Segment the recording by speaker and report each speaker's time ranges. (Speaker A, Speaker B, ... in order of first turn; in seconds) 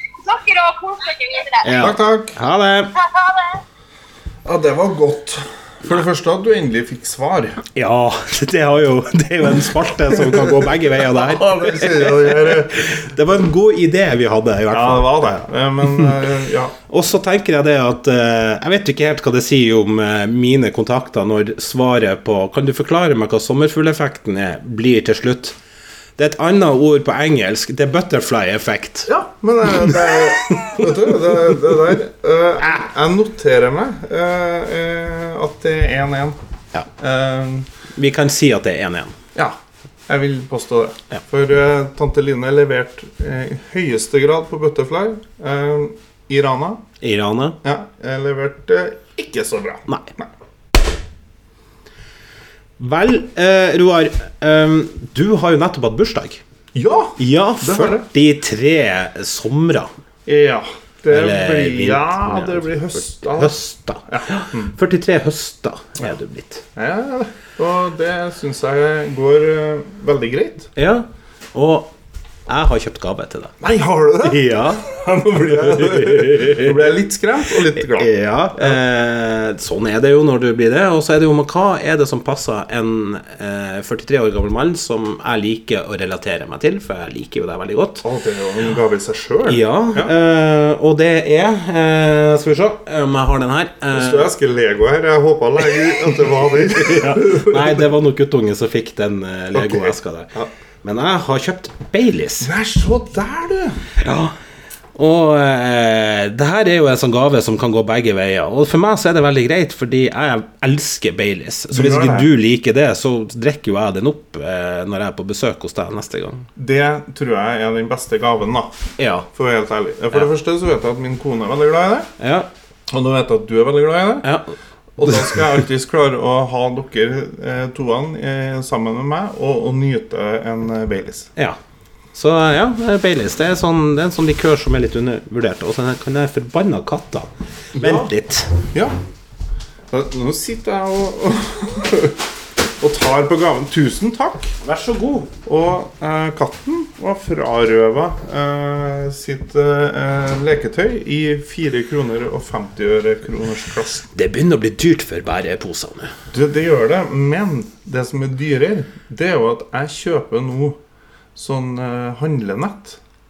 Speaker A: 0.2-1.9, 3.0-3.6
Speaker B: 1.6-3.0, 7.7-16.2, 16.9-25.6, 26.2-29.1, 29.7-31.6, 38.0-39.1, 47.0-47.6, 52.8-56.4, 57.2-59.9, 61.1-66.7, 70.8-71.9, 72.5-73.6, 74.2-76.8, 77.8-88.1, 89.5-94.3, 96.7-100.3, 100.8-102.5, 104.0-104.4, 105.0-116.5, 119.0-119.3, 122.2-122.5, 124.2-125.4, 132.1-138.7, 144.6-145.3, 154.1-156.2
Speaker C: 1.8-2.4, 4.5-7.6, 10.1-12.9, 14.7-16.8, 29.1-36.4, 37.0-37.7, 39.4-46.9, 47.6-50.3, 56.7-58.1, 60.3-64.8, 66.8-70.7, 73.6-78.8, 88.0-90.1, 93.9-97.9, 99.5-100.5, 102.4-103.9, 111.7-112.3, 116.6-122.1, 122.9-124.3, 125.0-131.3, 137.8-138.1, 139.9-142.2, 142.8-144.5, 145.5-154.1, 156.3-160.8, 161.3-163.0